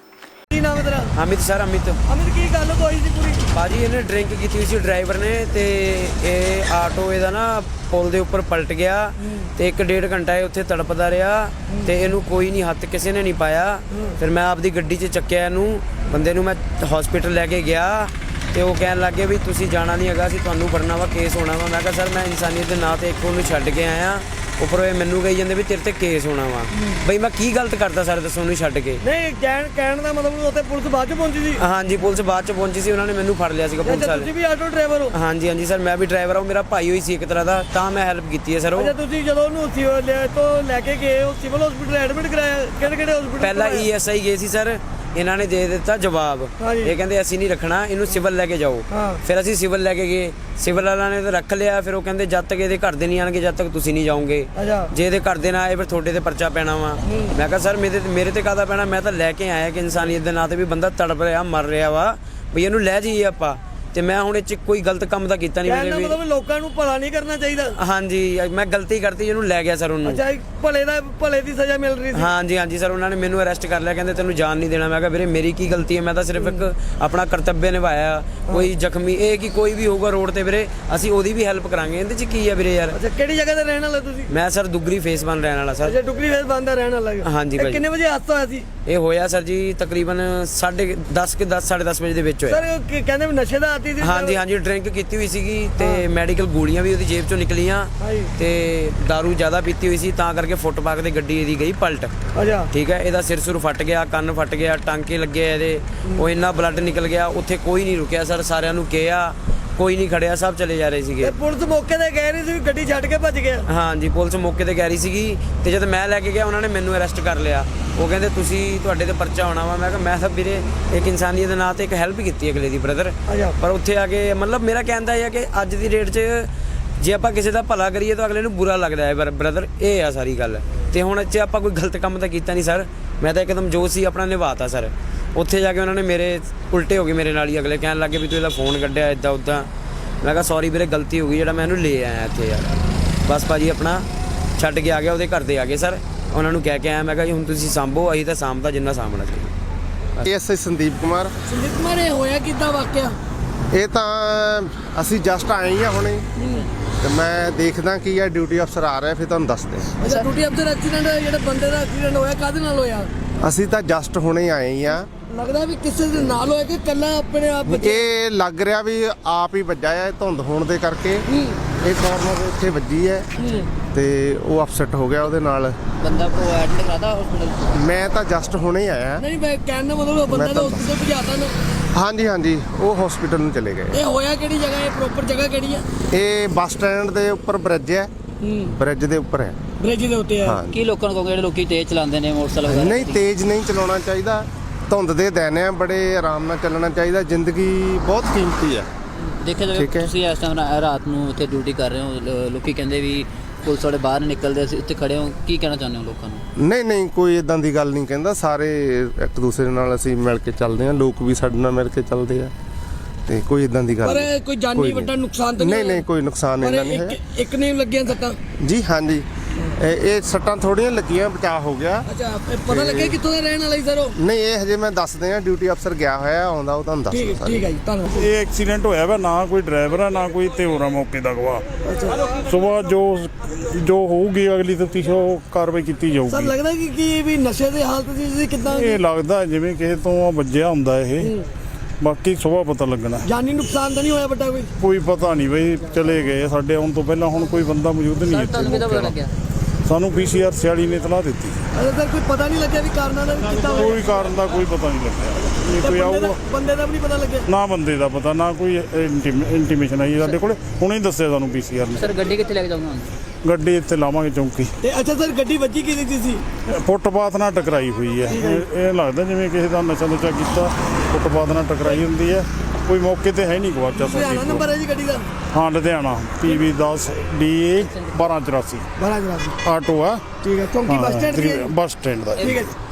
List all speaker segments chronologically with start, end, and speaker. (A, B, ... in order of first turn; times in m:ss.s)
0:00.5-0:01.1 A
0:01.1-0:02.0 B
0:02.1-0:03.4 A
0:03.5-0:29.0 B
0:29.0-0:31.6 A
0:31.6-0:34.3 B
0:33.8-0:35.1 A
0:35.1-0:38.9 B
0:38.7-0:43.9 A
0:43.4-1:06.2 B
0:46.6-0:46.9 A
0:48.9-0:49.2 A
0:54.6-0:54.9 A
0:57.0-0:57.3 A
1:05.6-1:07.7 A
1:07.8-1:10.2 B
1:10.0-1:12.3 A
1:12.1-1:23.0 B
1:16.4-1:16.6 A
1:22.9-1:24.3 A
1:24.3-1:25.9 B
1:25.8-1:28.7 A
1:27.2-1:27.8 B
1:28.8-1:32.6 B
1:32.4-1:34.4 A
1:34.0-1:42.1 B
1:35.8-1:36.0 A
1:38.0-1:38.3 A
1:42.4-1:42.7 A
1:42.7-1:51.4 B
1:51.2-1:53.6 A
1:53.7-2:19.7 B
2:03.3-2:03.5 A
2:20.2-2:24.0 B
2:24.6-2:29.5 B
2:30.2-2:31.3 C
2:31.5-2:33.2 A
2:33.7-2:36.3 C
2:36.4-2:36.6 A
2:37.0-2:40.1 C
2:40.0-2:43.1 A
2:43.4-2:45.1 C
2:45.3-2:48.1 A
2:47.6-2:51.2 C
2:51.3-2:51.6 A
2:51.8-2:53.3 C
2:53.4-2:53.7 A
2:53.8-2:55.8 C
2:56.0-2:57.8 D
2:57.7-2:59.2 C
2:59.2-3:01.5 A
3:00.3-3:00.8 C
3:01.9-3:04.0 C
3:03.9-3:05.8 A
3:06.1-3:08.1 C
3:08.4-3:08.7 A
3:08.6-3:09.6 C
3:09.8-3:10.6 A
3:10.4-3:10.8 C
3:10.7-3:13.2 D
3:12.6-3:18.9 C
3:19.4-3:26.4 D
3:19.7-3:20.1 C
3:26.6-3:32.5 C
3:33.2-3:37.2 C
3:34.0-3:36.0 A
3:36.6-3:38.4 A
3:38.6-3:39.2 C
3:39.8-3:42.1 C
3:42.1-3:44.2 A
3:42.7-3:43.2 C
3:44.2-3:47.7 C
3:47.1-3:48.3 A
3:48.2-3:51.6 E
3:51.8-3:52.3 A
3:52.2-3:56.5 E
3:56.3-3:59.0 A
3:58.7-4:01.3 E
4:01.2-4:01.4 A
4:02.0-4:03.2 E
4:03.2-4:04.7 A
4:04.8-4:09.2 E
4:08.2-4:09.3 D
4:09.8-4:11.6 E
4:11.7-4:14.1 A
4:13.4-4:16.4 E
4:15.8-4:17.5 A
4:17.5-4:22.2 E
4:22.0-4:23.1 D
4:23.4-4:24.7 E
4:24.8-4:26.4 A
4:26.7-4:34.7 E
4:28.3-4:28.6 A
4:33.9-4:35.3 A
4:35.5-4:38.8 E
4:39.0-4:39.6 A
4:39.6-4:40.2 E
4:40.4-4:41.7 A
4:40.9-4:42.6 E
4:42.4-4:42.7 A